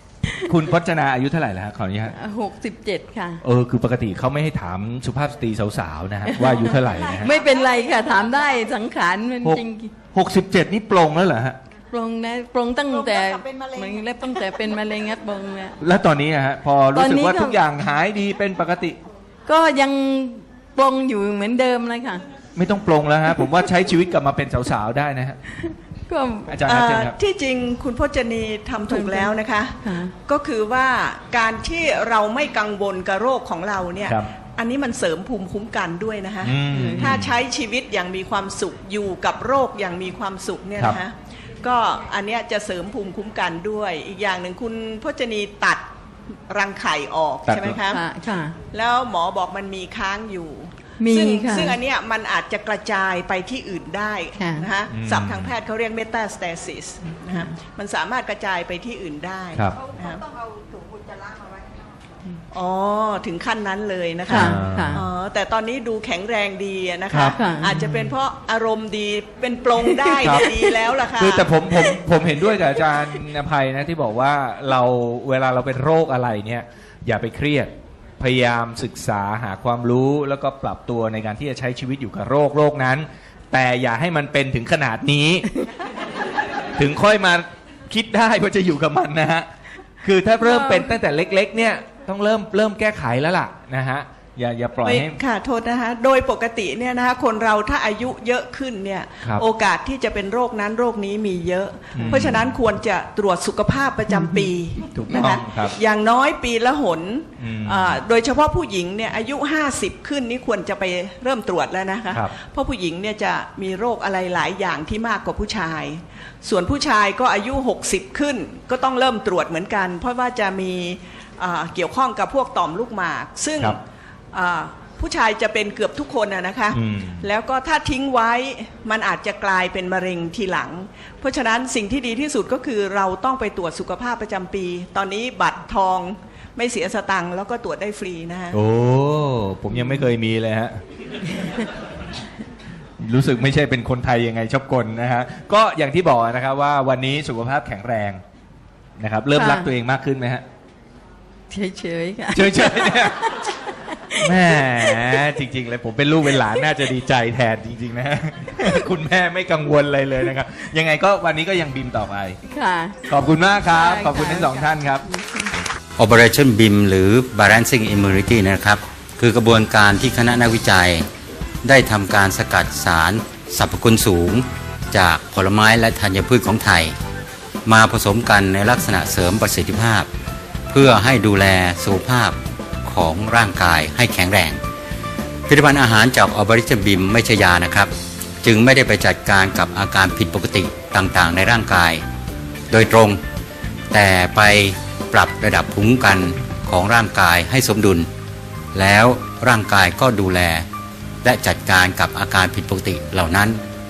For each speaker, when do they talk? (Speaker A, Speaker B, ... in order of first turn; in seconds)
Speaker A: 0.2-0.6, 2.1-3.4, 6.3-9.9, 11.9-15.8, 16.9-17.6, 19.5-22.3, 25.6-26.6, 28.9-30.1, 36.8-37.1, 47.9-48.6, 51.0-51.8, 54.4-54.7, 64.3-65.0, 67.4-67.8, 69.8-70.8, 90.5-90.9, 149.3-149.7, 151.5-155.2, 162.4-163.0, 163.7-165.5
Speaker B: 0.5-2.2, 3.4-7.3, 9.4-11.6, 15.8-19.0, 22.6-25.4, 26.5-27.2, 34.0-34.3, 36.4-37.4, 47.5-47.8, 54.9-55.5, 64.3-65.0, 67.1-68.0, 70.2-70.5, 71.1-85.5, 86.8-89.5, 90.0-95.2, 102.0-102.5, 104.3-105.8, 107.4-108.0, 126.7-127.3, 138.5-140.8, 143.0-148.2, 149.0-150.4, 152.3-153.2, 154.2-162.4, 163.1-165.1
Speaker C: 6.6-8.9, 12.8-15.0, 59.8-61.8
Speaker D: 26.6-45.8, 46.5-48.0, 48.7-60.2, 62.5-71.8, 94.8-123.8, 124.3-138.6
Speaker E: 166.0-171.1, 171.6-177.0, 177.7-180.1, 180.7-184.6, 185.5-192.0, 192.7-193.2, 193.9-198.1, 198.7-200.7, 201.2-203.6